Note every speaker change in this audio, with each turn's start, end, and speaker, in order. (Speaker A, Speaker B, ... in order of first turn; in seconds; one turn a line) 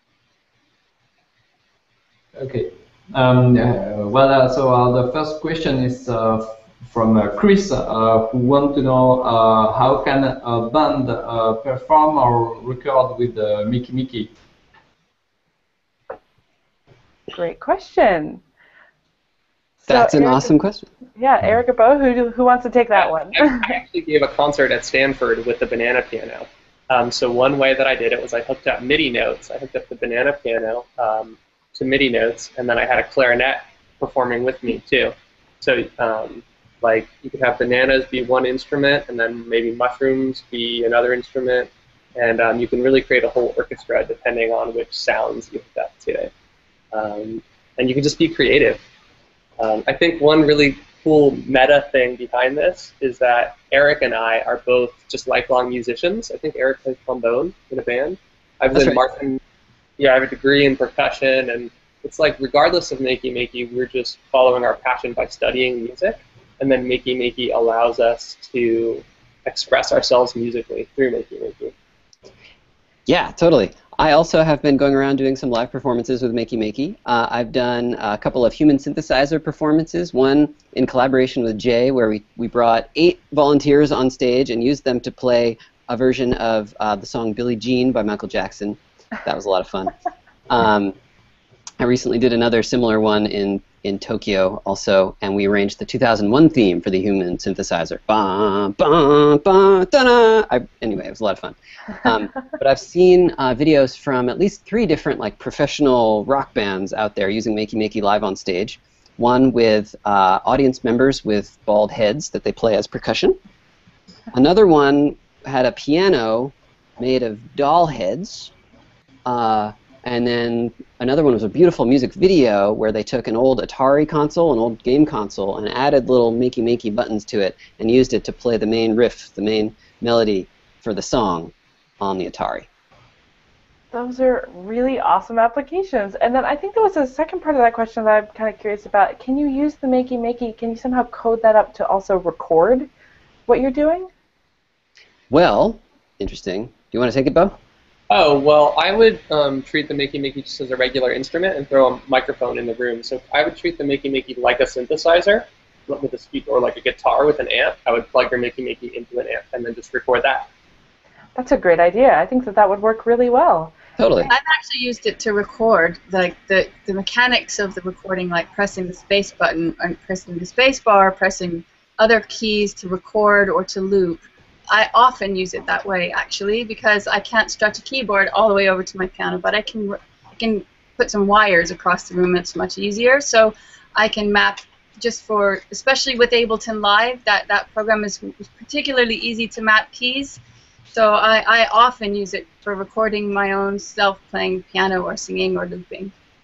Speaker A: 2.3-14.3
Speaker B: 17.3-18.4
Speaker B: 19.8-20.5
Speaker C: 19.9-20.9
Speaker B: 21.1-23.7
Speaker D: 22.9-46.3
Speaker D: 46.9-48.8
Speaker D: 49.6-59.4
Speaker C: 58.7-59.0
Speaker D: 60.0-71.7
Speaker C: 73.1-89.9
Speaker C: 90.5-91.0
Speaker C: 91.8-113.4
Speaker C: 114.3-118.5
Speaker C: 119.2-132.7
Speaker B: 133.9-142.9
Speaker B: 143.5-144.1
Speaker C: 145.3-147.6
Speaker D: 148.1-160.5
Speaker B: 161.3-164.3
Speaker C: 164.0-164.3
Speaker E: 164.3-190.4
Speaker E: 190.9-196.1